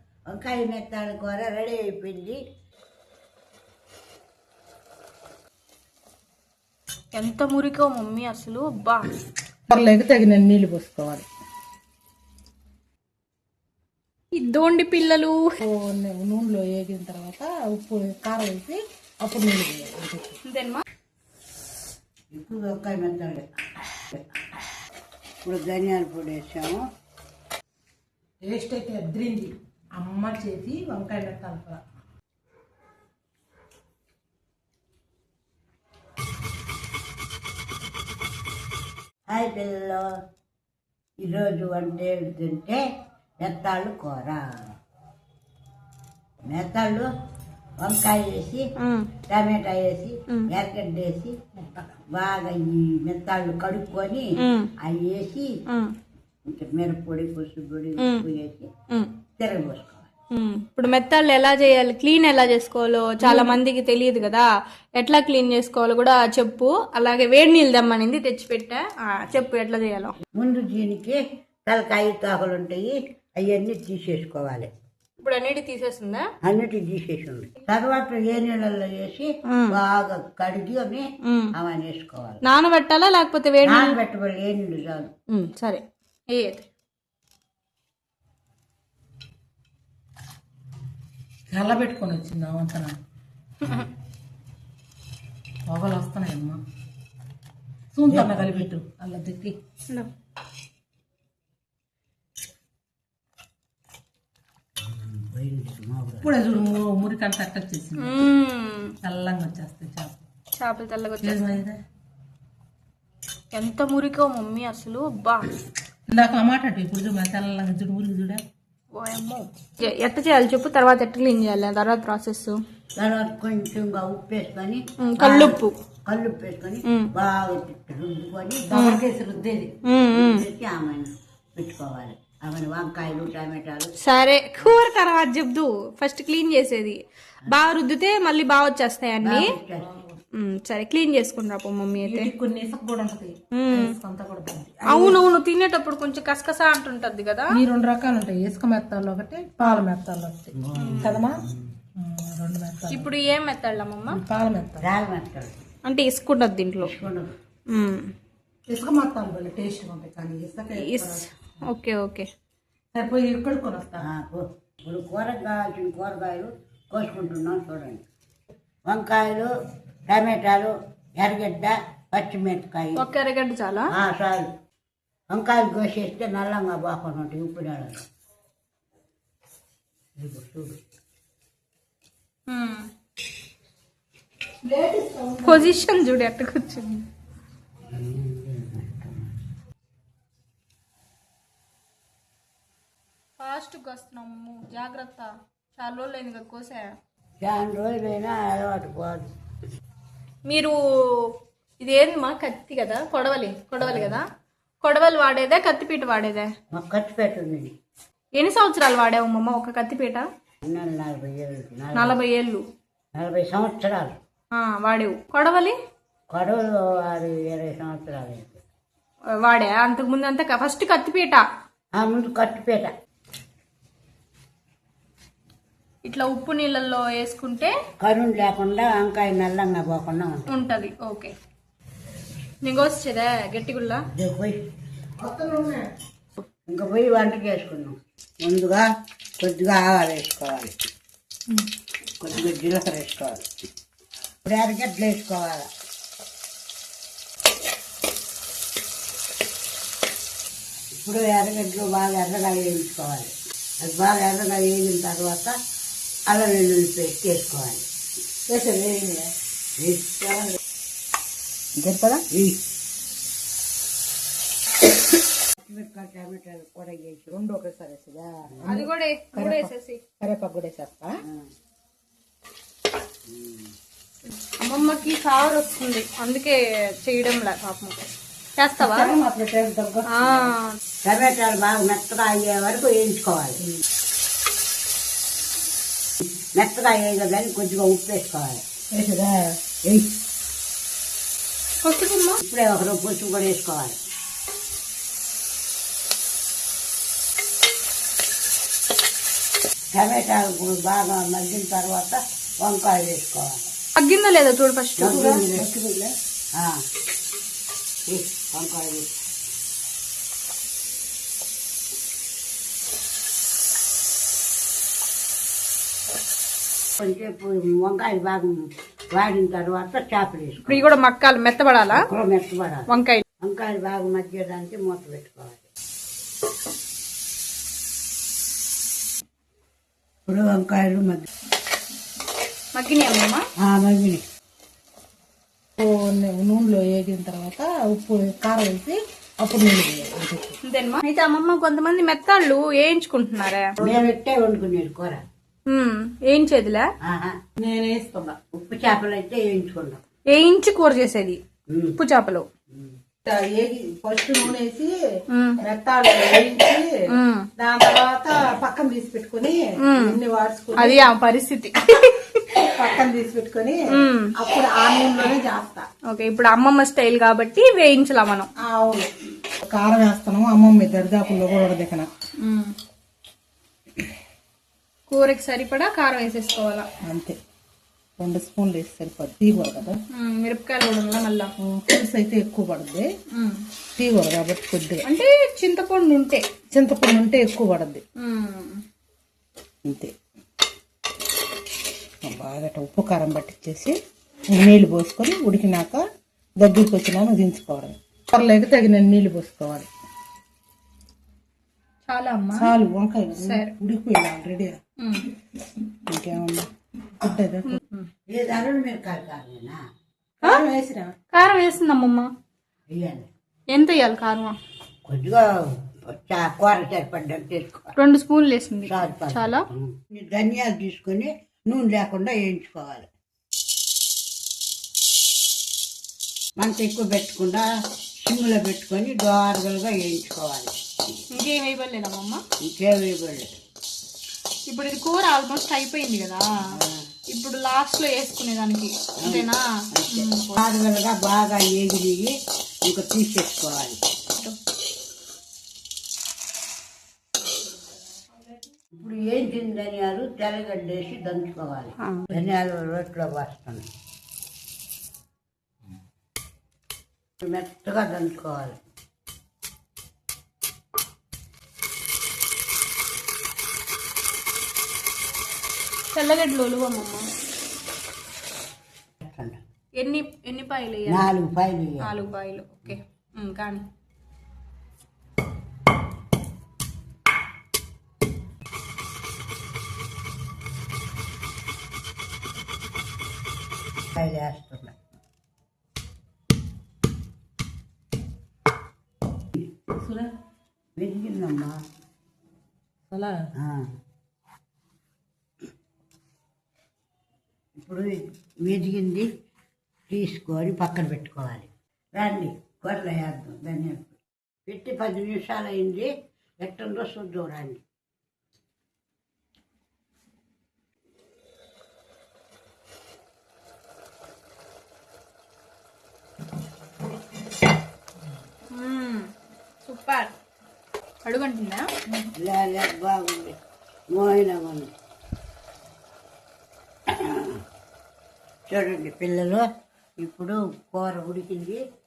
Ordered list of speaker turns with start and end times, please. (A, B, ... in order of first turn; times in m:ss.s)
0:00.3-0:02.4 A
0:07.1-0:09.1 B
0:09.7-0:11.3 C
0:14.3-0:15.5 B
0:15.6-0:20.4 C
0:20.4-0:20.8 B
0:22.3-0:23.5 A
0:25.4-0:26.8 A
0:28.5-0:31.8 C
0:39.3-0:40.1 A
0:41.2-0:42.8 A
0:43.4-0:44.7 A
0:46.4-0:47.1 A
0:47.8-0:48.7 A
0:48.8-0:49.1 B
0:49.3-0:55.5 A
0:54.4-0:54.7 B
0:55.7-0:56.0 B
0:56.5-0:58.7 A
0:58.0-0:58.3 B
0:59.4-1:00.1 A
1:00.3-1:10.2 B
1:03.3-1:03.5 A
1:10.3-1:14.7 A
1:15.2-1:16.3 B
1:16.4-1:22.4 A
1:19.5-1:19.8 B
1:21.2-1:21.5 B
1:22.4-1:24.0 B
1:23.6-1:25.1 A
1:25.3-1:26.7 B
1:31.5-1:33.0 C
1:33.6-1:33.9 B
1:35.7-1:36.6 C
1:37.9-1:39.6 C
1:38.1-1:38.7 A
1:44.8-1:46.3 A
1:46.2-1:48.3 C
1:48.0-1:49.0 B
1:49.0-1:50.2 C
1:50.6-1:51.6 B
1:51.2-1:51.8 C
1:53.5-1:55.5 B
1:56.1-1:58.4 C
1:58.9-2:02.6 B
2:03.0-2:08.7 A
2:05.0-2:05.7 B
2:06.8-2:07.1 B
2:08.7-2:09.8 C
2:08.7-2:09.0 B
2:09.8-2:10.5 B
2:10.1-2:13.9 A
2:14.0-2:19.6 B
2:19.2-2:19.9 A
2:20.4-2:22.3 B
2:22.0-2:25.2 C
2:23.6-2:24.0 B
2:24.8-2:27.5 B
2:27.5-2:31.4 C
2:30.6-2:31.7 A
2:30.8-2:31.2 B
2:32.0-2:33.1 C
2:32.9-2:34.2 B
2:34.1-2:34.9 C
2:34.8-2:35.6 A
2:35.8-2:36.9 B
2:36.8-2:37.4 A
2:37.7-2:38.1 B
2:38.7-2:41.6 C
2:40.8-2:42.3 B
2:42.9-2:44.0 C
2:44.0-2:48.0 A
2:48.9-2:49.5 A
2:50.1-2:53.1 A
2:53.0-2:53.9 B
2:53.9-2:54.5 A
2:55.3-2:58.0 A
3:00.2-3:00.8 A
3:02.5-3:02.9 B
3:04.6-3:05.7 C
3:05.4-3:07.0 B
3:07.9-3:09.4 A
3:13.4-3:16.9 B
3:17.4-3:19.3 A
3:20.5-3:24.3 B
3:23.8-3:24.2 A
3:24.8-3:26.5 B
3:26.7-3:27.7 A
3:28.4-3:30.3 B
3:30.6-3:32.2 A
3:32.0-3:32.6 B
3:33.2-3:34.2 A
3:34.5-3:35.8 B
3:36.3-3:38.6 A
3:39.4-3:41.4 B
3:42.0-3:42.9 A
3:46.0-3:47.7 B
3:48.0-3:50.5 A
3:50.5-3:51.3 B
3:52.6-3:54.0 B
3:54.1-3:54.6 A
3:55.2-3:55.9 C
3:56.7-3:58.9 A
3:59.4-4:00.7 A
4:02.2-4:03.4 A
4:04.4-4:05.7 A
4:11.0-4:15.6 A
4:16.3-4:17.8 A
4:18.5-4:19.3 C
4:19.8-4:20.6 A
4:21.8-4:22.2 C
4:22.3-4:22.6 A
4:25.6-4:27.4 A
4:27.3-4:31.2 C
4:28.7-4:30.0 B
4:31.2-4:31.5 A
4:33.3-4:33.7 A
4:34.5-4:39.1 B
4:38.8-4:40.5 C
4:40.1-4:40.8 B
4:41.0-4:43.6 A
4:46.6-4:48.6 A
4:48.9-4:49.6 C
4:49.8-4:50.1 A
4:51.8-4:52.4 B
4:52.4-4:54.0 A
4:59.9-5:03.7 A
5:04.0-5:05.4 B
5:05.0-5:05.7 A
5:05.1-5:06.1 C
5:06.6-5:06.8 A
5:08.1-5:09.1 A
5:17.0-5:20.9 A
5:20.7-5:22.1 B
5:21.9-5:22.9 A
5:22.9-5:23.2 B
5:23.4-5:25.6 A
5:30.3-5:31.3 A
5:32.7-5:33.4 B
5:33.6-5:34.2 A
5:35.8-5:40.6 C
5:40.6-5:43.7 B
5:43.8-5:45.2 A
5:43.8-5:44.1 C
5:45.7-5:46.9 B
5:47.0-5:47.4 A
5:47.6-5:48.4 C
5:48.5-5:50.0 A
5:50.3-5:51.4 B
5:51.7-5:52.0 A
5:52.0-5:52.4 B
5:53.3-5:55.0 C
5:55.3-5:55.6 B
5:55.6-5:56.9 C
5:57.1-5:57.5 B
5:57.6-6:01.1 C
5:59.8-6:00.2 B
6:00.8-6:02.6 B
6:02.6-6:05.9 C
6:03.9-6:04.3 B
6:06.1-6:08.5 B
6:08.6-6:09.1 C
6:09.6-6:12.1 C
6:12.4-6:12.8 B
6:15.1-6:16.9 B
6:17.0-6:17.4 C
6:18.2-6:20.0 C
6:20.1-6:21.5 B
6:21.6-6:23.1 C
6:23.3-6:23.7 B
6:24.0-6:25.1 C
6:25.0-6:26.4 B
6:26.7-6:28.0 C
6:28.2-6:28.8 B
6:29.8-6:30.1 C
6:32.2-6:34.0 C
6:34.5-6:36.0 C
6:36.6-6:39.9 C
6:42.1-6:42.7 B
6:42.6-6:44.8 C
6:43.4-6:43.7 B
6:45.0-6:45.3 B
6:45.8-6:46.7 C
6:47.2-6:47.8 C
6:47.7-6:48.1 B
6:48.3-6:49.8 A
6:50.4-6:51.1 C
6:51.3-6:52.3 B
6:52.9-6:53.3 A
6:53.7-6:54.6 B
6:55.0-6:57.9 A
6:58.0-6:59.6 B
6:58.8-7:03.1 A
7:06.6-7:07.7 A
7:08.2-7:10.8 A
7:11.3-7:12.4 B
7:12.6-7:13.5 A
7:14.7-7:16.6 B
7:16.7-7:17.1 A
7:17.3-7:20.6 B
7:19.2-7:24.0 A
7:29.0-7:33.9 A
7:37.4-7:38.8 A
7:46.1-7:47.3 B
7:49.2-7:49.6 A
7:50.0-7:51.3 B
7:51.1-7:52.1 A
7:52.0-7:53.8 B
8:04.1-8:05.0 A
8:09.9-8:10.3 C
8:11.0-8:11.8 A
8:13.1-8:13.5 C
8:13.6-8:13.9 A
8:17.8-8:19.3 A
8:20.1-8:27.8 A
8:38.7-8:39.3 B
8:39.8-8:40.3 B
8:41.2-8:41.9 B
8:42.4-8:43.6 A
8:44.1-8:44.9 A
8:47.1-8:47.6 A
8:48.7-8:49.7 A
8:50.2-8:51.8 A